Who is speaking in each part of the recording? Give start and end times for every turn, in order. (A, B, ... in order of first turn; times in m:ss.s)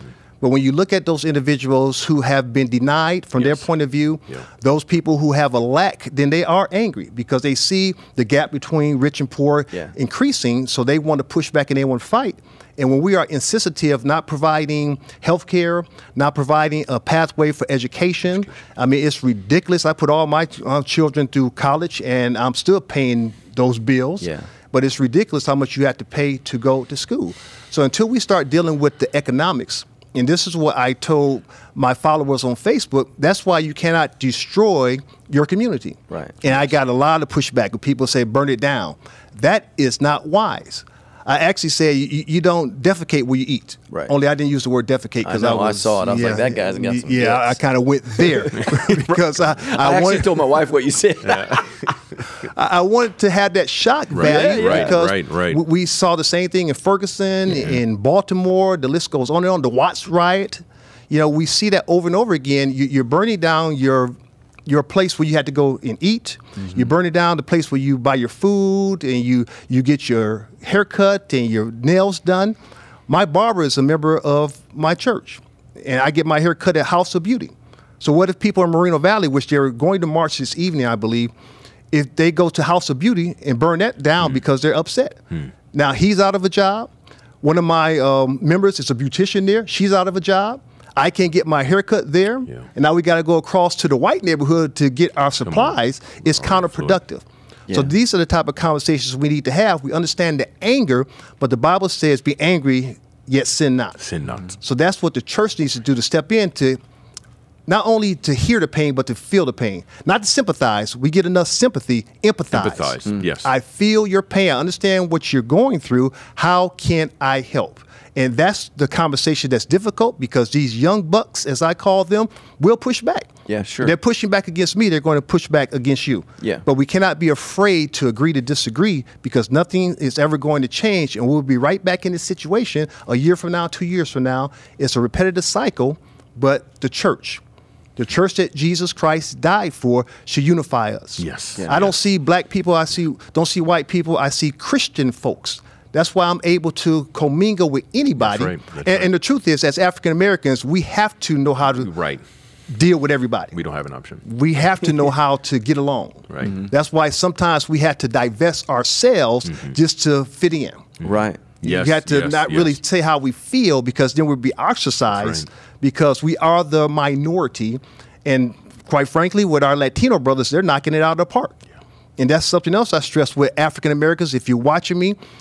0:00.4-0:50.5 A
0:03.4-0:03.6 B
0:24.2-0:24.5 C
0:36.1-0:36.4 C
0:45.2-0:52.0 C
0:51.2-0:51.7 B
0:52.4-1:12.6 A
0:54.1-0:55.6 B
0:54.2-0:55.0 C
1:13.1-1:21.3 A
1:21.9-1:26.9 A
1:27.4-1:44.0 A
1:35.4-1:37.0 B
1:44.0-1:44.5 B
1:44.5-1:46.8 A
1:47.7-2:03.3 A
1:52.5-1:53.5 B
2:03.5-2:03.9 C
2:03.8-2:17.4 A
2:06.4-2:06.6 C
2:18.0-2:31.9 A
2:21.2-2:21.9 B
2:28.2-2:29.1 B
2:31.8-2:32.2 B
2:32.7-2:33.5 A
2:33.5-2:34.2 B
2:34.2-2:41.0 A
2:41.0-2:42.7 B
2:41.0-2:41.4 C
2:41.6-2:51.6 A
2:45.1-2:45.4 B
2:52.2-2:55.2 A